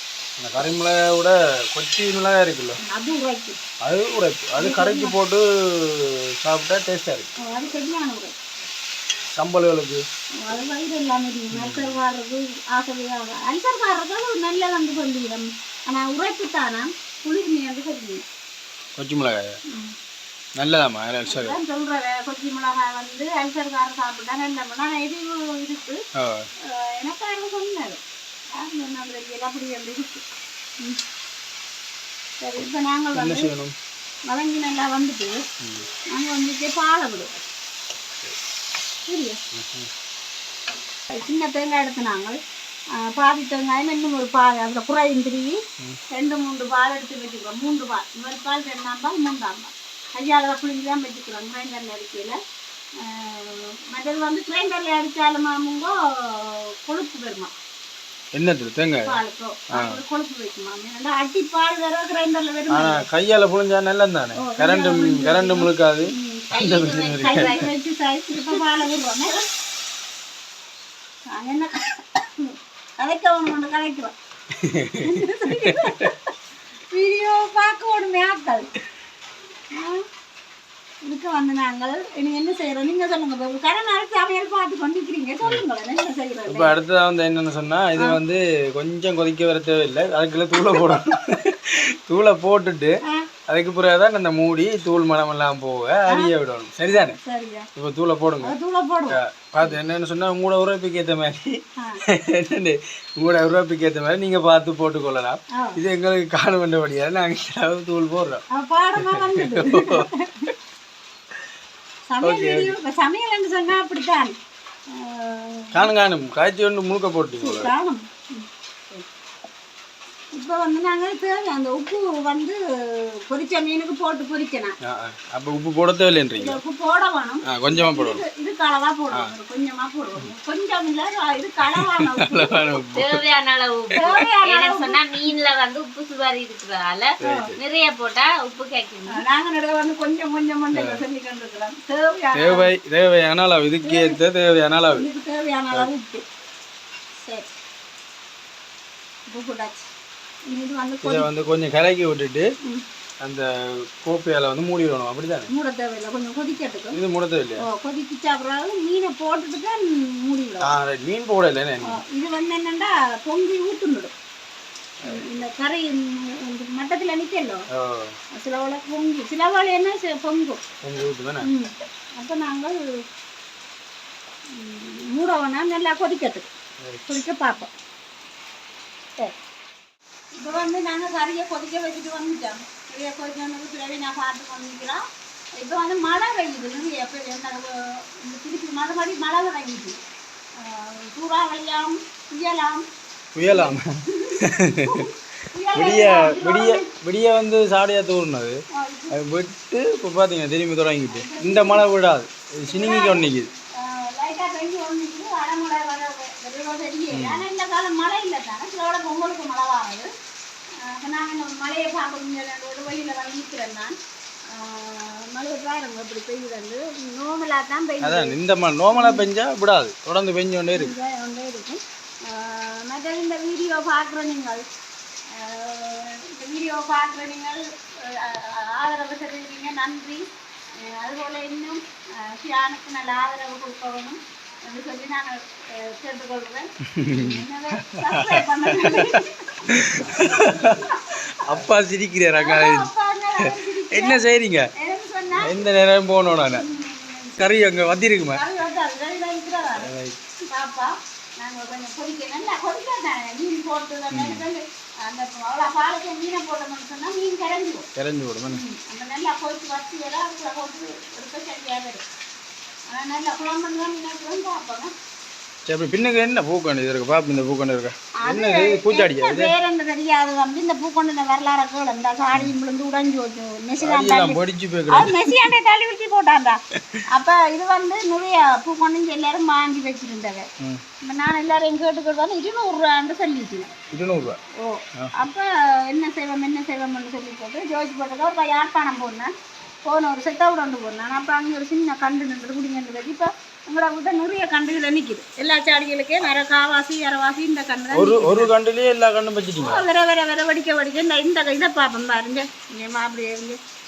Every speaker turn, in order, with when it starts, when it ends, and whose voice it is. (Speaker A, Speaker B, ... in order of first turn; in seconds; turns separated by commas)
Speaker A: 0.4-2.8, Speaker B: 2.8-3.6, Speaker A: 3.8-7.3, Speaker B: 4.6-5.1, Speaker B: 7.4-8.3, Speaker A: 9.3-10.0, Speaker B: 10.4-18.2, Speaker A: 11.5-11.9, Speaker A: 19.0-19.6, Speaker B: 19.7-19.9, Speaker A: 20.6-21.6, Speaker B: 21.2-26.0, Speaker A: 26.1-26.5, Speaker B: 26.6-30.2, Speaker B: 32.4-33.5, Speaker A: 33.1-33.7, Speaker B: 34.2-35.4, Speaker A: 35.6-35.9, Speaker B: 36.1-37.4, Speaker B: 39.1-39.4, Speaker A: 39.5-39.9, Speaker B: 41.1-42.4, Speaker B: 42.9-52.4, Speaker B: 53.0-57.5, Speaker A: 58.3-59.2, Speaker B: 59.0-63.0, Speaker A: 59.7-60.0, Speaker A: 62.7-67.5, Speaker B: 64.3-66.5, Speaker C: 66.5-67.7, Speaker B: 67.2-69.4, Speaker B: 71.3-74.1, Speaker A: 74.5-76.1, Speaker B: 75.0-76.2, Speaker B: 76.9-78.7, Speaker B: 79.7-80.0, Speaker B: 81.0-86.8, Speaker A: 86.5-97.2, Speaker B: 96.1-96.3, Speaker B: 97.1-97.7, Speaker A: 97.8-98.5, Speaker B: 98.4-99.7, Speaker A: 99.1-108.4, Speaker B: 101.8-102.0, Speaker B: 105.5-105.8, Speaker B: 108.5-110.5, Speaker A: 109.0-110.1, Speaker B: 112.1-114.3, Speaker A: 112.2-112.7, Speaker B: 114.9-115.9, Speaker A: 115.7-117.7, Speaker B: 117.3-119.1, Speaker B: 120.3-124.8, Speaker A: 124.8-126.6, Speaker B: 126.3-132.8, Speaker A: 127.4-128.2, Speaker A: 131.7-133.2, Speaker C: 132.9-139.2, Speaker B: 134.0-135.0, Speaker A: 137.2-137.6, Speaker B: 137.2-137.5, Speaker B: 139.1-142.7, Speaker A: 140.7-141.0, Speaker A: 142.3-145.0, Speaker B: 143.8-144.2, Speaker B: 144.9-146.2, Speaker B: 147.1-147.5, Speaker B: 149.3-149.9, Speaker B: 150.5-151.3, Speaker A: 151.0-152.5, Speaker A: 153.2-155.5, Speaker B: 155.5-157.0, Speaker A: 156.9-157.7, Speaker B: 157.6-160.7, Speaker A: 160.6-162.0, Speaker B: 161.8-164.1, Speaker A: 165.0-165.3, Speaker B: 165.0-167.7, Speaker A: 167.7-168.2, Speaker B: 168.3-170.6, Speaker A: 170.8-171.5, Speaker B: 171.4-172.8, Speaker B: 174.5-176.5, Speaker A: 176.8-177.2, Speaker B: 177.1-177.7, Speaker B: 180.3-185.0, Speaker B: 185.5-190.0, Speaker B: 190.5-192.9, Speaker A: 193.3-195.1, Speaker B: 193.4-196.9, Speaker A: 195.7-203.5, Speaker B: 198.7-199.2, Speaker B: 201.1-201.9, Speaker B: 202.7-210.1, Speaker A: 207.1-207.4, Speaker B: 210.7-218.4, Speaker A: 218.0-220.9, Speaker B: 218.9-219.3, Speaker B: 220.7-224.6, Speaker B: 225.3-241.6, Speaker A: 236.8-242.9, Speaker B: 242.4-244.2, Speaker A: 243.4-244.7, Speaker B: 244.8-245.6, Speaker A: 245.4-246.7, Speaker B: 246.5-249.9, Speaker A: 247.4-248.4, Speaker A: 249.7-250.2, Speaker B: 250.5-257.9, Speaker A: 254.1-254.4, Speaker A: 257.9-258.6, Speaker B: 258.5-262.1, Speaker B: 262.9-264.9, Speaker A: 265.6-269.5, Speaker B: 268.2-280.5, Speaker A: 273.8-275.5, Speaker B: 281.0-283.7, Speaker A: 283.9-284.4, Speaker B: 284.5-289.3, Speaker B: 289.8-298.5, Speaker A: 297.9-299.8, Speaker B: 299.6-303.6